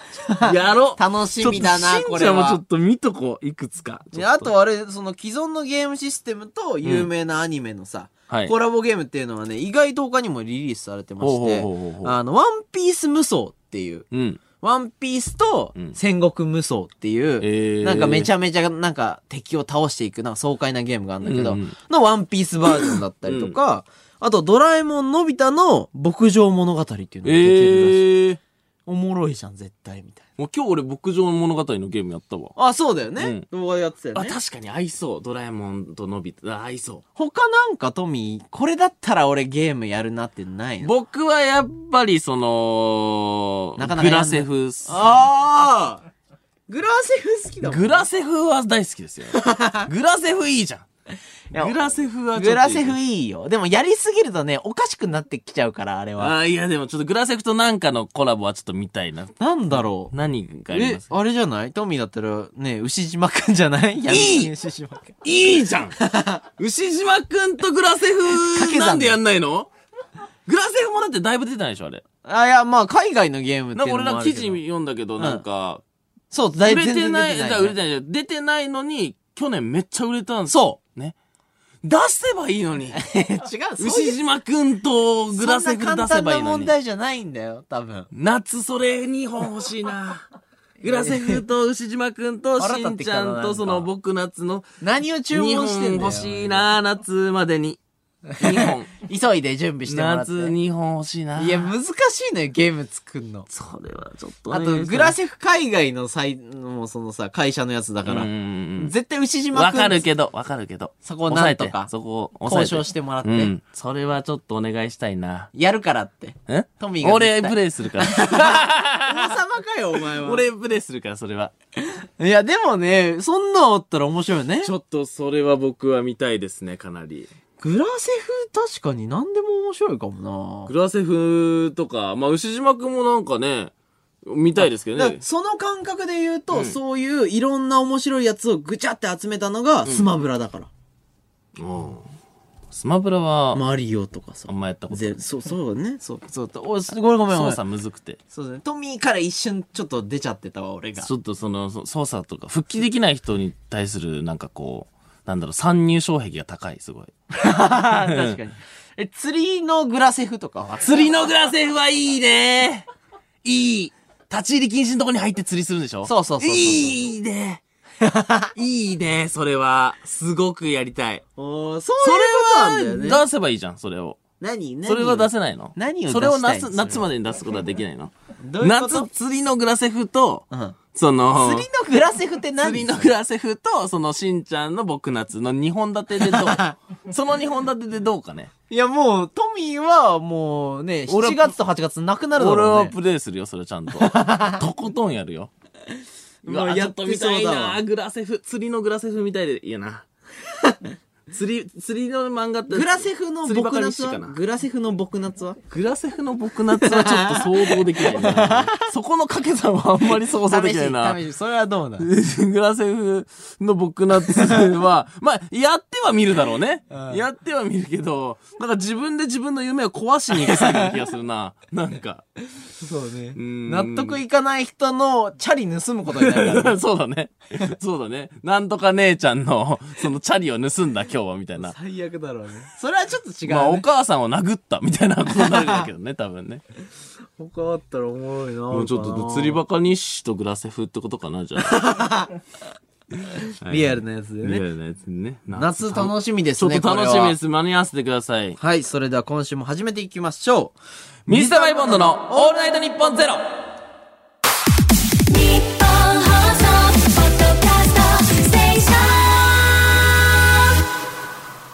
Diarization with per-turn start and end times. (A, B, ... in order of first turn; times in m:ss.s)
0:00.2-0:02.6 A
0:00.4-0:04.5 B
0:04.1-0:14.0 A
0:06.8-0:07.1 B
0:08.3-0:08.5 B
0:11.2-0:12.1 B
0:14.1-0:14.4 B
0:14.6-0:28.0 A
0:17.4-0:18.3 B
0:21.2-0:21.8 B
0:22.8-0:23.5 B
0:27.2-0:28.4 B
0:28.8-0:30.2 A
0:30.4-0:32.6 B
0:32.6-0:34.4 A
0:33.2-0:33.4 B
0:34.1-0:37.0 B
0:37.2-0:40.9 A
0:40.8-0:45.2 B
0:43.8-0:46.0 A
0:46.7-0:48.1 A
0:47.6-0:50.8 B
0:49.3-0:49.9 A
0:51.5-0:51.8 A
0:51.6-0:53.0 B
0:52.3-0:56.3 A
0:56.2-1:01.1 B
0:59.4-1:00.1 A
1:00.7-1:05.2 A
1:04.1-1:04.5 B
1:05.2-1:06.0 B
1:06.0-1:06.4 A
1:06.6-1:09.7 B
1:08.3-1:09.2 A
1:10.4-1:12.0 B
1:12.2-1:14.6 A
1:13.7-1:15.8 B
1:15.2-1:15.4 A
1:16.3-1:17.7 A
1:16.6-1:21.2 B
1:20.5-1:20.8 A
1:21.8-1:23.0 B
1:22.9-1:24.2 A
1:23.8-1:26.7 B
1:25.3-1:28.1 A
1:28.1-1:30.3 B
1:30.8-1:34.7 B
1:30.8-1:31.4 A
1:32.6-1:33.8 A
1:34.8-1:36.7 A
1:35.3-1:37.8 B
1:38.3-1:40.5 A
1:38.3-1:38.9 B
1:39.9-1:41.7 B
1:41.4-1:43.5 A
1:43.5-1:45.1 B
1:44.5-1:50.0 A
1:48.0-1:48.9 B
1:49.5-1:55.5 B
1:51.0-1:51.9 A
1:52.4-1:53.5 A
1:55.5-2:00.4 A
1:56.5-1:59.4 B
2:00.1-2:01.5 B
2:01.9-2:04.7 A
2:04.6-2:07.3 B
2:07.6-2:10.7 A
2:10.7-2:13.7 B
2:14.2-2:15.2 B
2:14.8-2:20.7 A
2:21.6-2:22.0 B
2:22.7-2:23.6 B
2:23.5-2:27.6 A
2:24.5-2:25.2 B
2:27.3-2:28.2 B
2:28.3-2:31.1 A
2:31.0-2:37.1 B
2:37.3-2:41.1 A
2:37.9-2:38.4 B
2:40.8-2:42.8 B
2:43.4-2:47.6 B
2:46.0-2:47.0 A
2:48.0-2:48.5 A
2:48.5-2:51.2 B
2:51.4-2:53.2 A
2:52.0-2:54.2 B
2:54.4-2:57.0 A
2:54.8-3:01.7 B
2:58.4-2:59.1 A
3:00.5-3:00.8 A
3:01.3-3:03.1 A
3:02.6-3:08.5 B
3:06.2-3:06.7 A
3:08.7-3:12.9 A
3:11.1-3:11.5 B
3:12.4-3:15.5 B
3:14.0-3:14.6 A
3:16.4-3:17.8 A
3:16.4-3:20.0 B
3:21.3-3:24.4 B
3:22.7-3:25.6 A
3:25.7-3:31.2 B
3:26.8-3:28.8 A
3:30.2-3:32.1 A
3:32.0-3:42.2 B
3:34.3-3:34.6 A
3:36.9-3:37.2 A
3:40.3-3:41.0 A
3:42.8-3:46.8 A
3:43.3-3:44.2 B
3:46.1-3:51.7 B
3:51.6-3:53.8 A
3:53.5-3:56.6 B
3:55.3-3:55.8 A
3:57.4-3:59.6 A
3:58.7-4:01.8 B
4:01.6-4:02.4 A
4:03.6-4:08.6 B
4:03.6-4:04.6 A
4:05.5-4:07.4 A
4:08.6-4:10.8 A
4:11.3-4:13.5 B
4:11.3-4:12.6 A
4:15.3-4:19.8 C